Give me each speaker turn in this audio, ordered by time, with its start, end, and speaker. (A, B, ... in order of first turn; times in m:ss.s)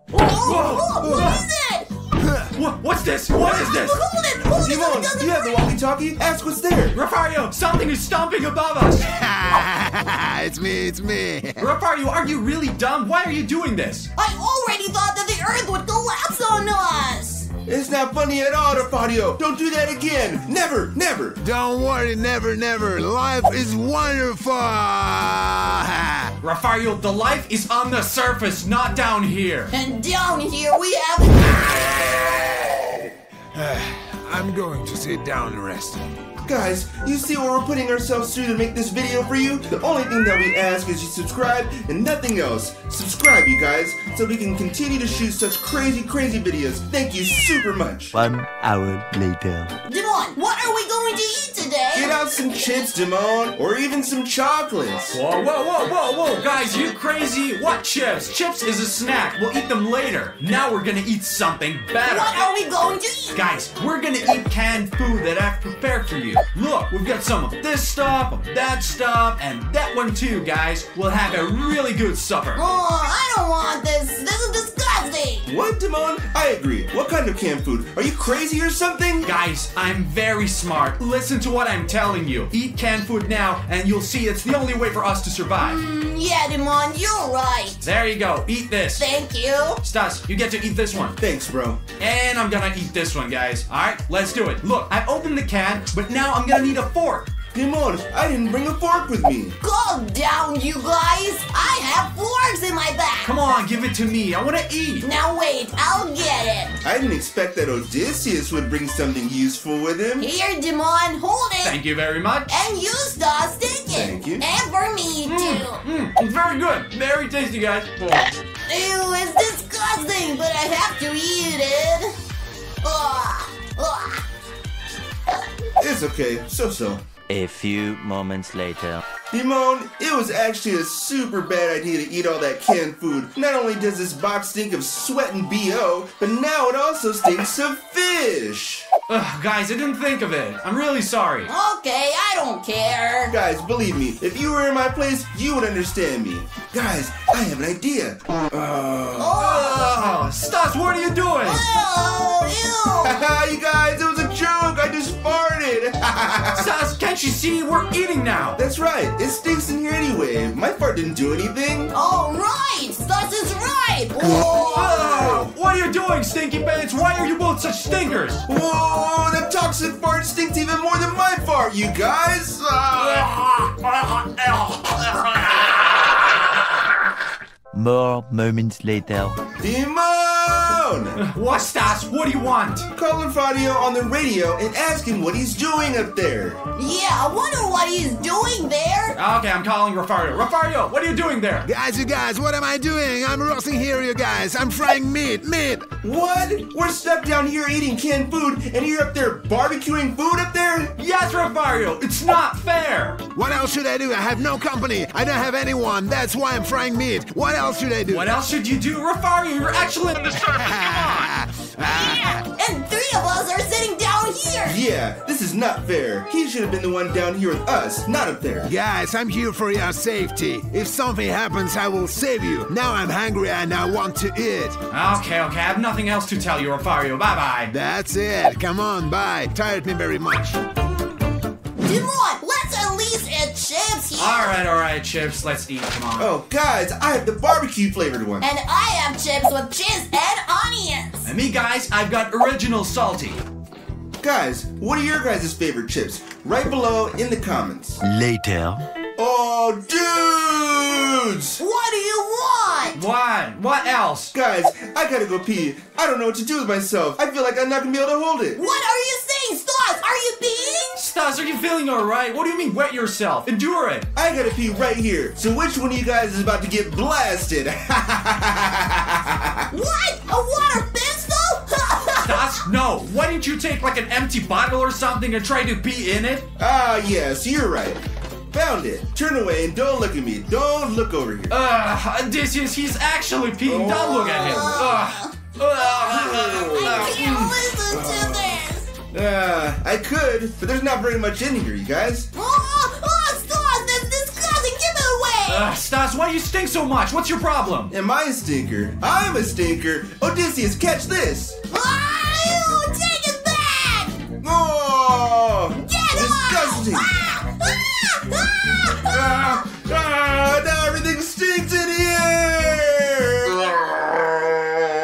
0:00.1-0:01.9 A
0:00.4-0:01.4 B
0:02.2-0:02.5 C
0:02.6-0:04.0 B
0:03.4-0:05.7 A
0:04.6-0:07.0 D
0:06.9-0:09.0 B
0:09.1-0:11.7 C
0:11.6-0:14.1 B
0:14.2-0:17.5 A
0:17.7-0:21.4 D
0:21.4-0:26.3 C
0:26.4-0:29.7 B
0:29.7-0:32.2 A
0:33.5-0:36.0 C
0:36.4-0:48.2 D
0:48.1-0:49.7 E
0:49.9-0:52.1 A
0:51.9-0:55.2 D
0:55.1-1:02.5 B
1:02.0-1:03.4 A
1:03.3-1:12.6 B
1:12.6-1:15.5 A
1:15.5-1:19.3 D
1:19.2-1:25.8 B
1:25.6-1:27.8 A
1:27.8-1:29.1 B
1:29.0-1:29.8 A
1:29.8-1:31.2 B
1:31.2-1:31.8 D
1:32.0-1:37.3 B
1:37.5-1:39.6 D
1:39.6-1:43.3 A
1:43.2-1:45.1 B
1:45.0-1:46.8 A
1:46.8-1:50.3 D
1:50.2-1:51.8 A
1:51.6-1:52.6 B
1:52.5-1:55.8 A
1:53.9-1:54.4 D
1:55.3-1:58.3 B
1:58.7-2:02.2 A
2:02.8-2:04.2 A
2:05.8-2:07.1 D
2:07.3-2:09.0 E
2:09.3-2:18.9 D
2:19.1-2:21.5 B
2:21.5-2:23.3 A
2:23.3-2:29.4 D
2:29.2-2:29.9 A
2:29.4-2:31.6 B
2:31.4-2:33.2 A
2:33.0-2:36.6 D
2:36.6-2:38.6 B
2:38.6-2:41.9 D
2:41.9-2:44.6 A
2:44.4-2:45.5 D
2:44.7-2:48.4 B
2:48.5-2:54.8 D
2:53.0-2:53.3 B
2:57.7-2:59.4 E
2:59.6-3:01.2 D
3:01.2-3:02.9 B
3:02.9-3:06.6 D
3:06.8-3:09.2 A
3:09.2-3:11.7 B
3:11.6-3:15.9 C
3:16.0-3:20.9 D
3:21.0-3:23.2 B
3:23.4-3:28.4 C
3:28.1-3:31.4 B
3:30.4-3:32.2 C
3:31.8-3:34.8 A
3:34.7-3:38.7 D
3:38.6-3:44.8 C
3:44.9-3:47.7 B
3:47.7-3:50.6 C
3:51.8-3:54.5 A
3:54.2-3:56.3 B
3:56.2-3:58.5 D
3:58.4-4:01.3 A
4:01.2-4:03.4 B
4:04.2-4:08.0 D
4:08.0-4:08.8 E
4:09.2-4:11.6 D
4:11.6-4:13.0 A
4:13.0-4:14.3 B
4:14.3-4:18.6 D
4:18.6-4:21.0 A
4:21.0-4:24.1 B
4:24.2-4:29.7 D
4:29.7-4:32.6 A
4:32.2-4:36.5 B
4:36.6-4:41.6 D
4:41.5-4:47.6 B
4:43.7-4:45.0 D
4:44.2-4:48.9 A
4:46.1-4:47.2 D
4:47.9-4:48.6 D
4:49.1-4:52.3 D
4:52.3-4:55.7 A
4:55.5-4:57.9 B
4:57.9-5:01.6 D
5:01.7-5:04.2 A
5:04.4-5:07.2 D
5:05.8-5:09.4 A
5:09.1-5:14.0 D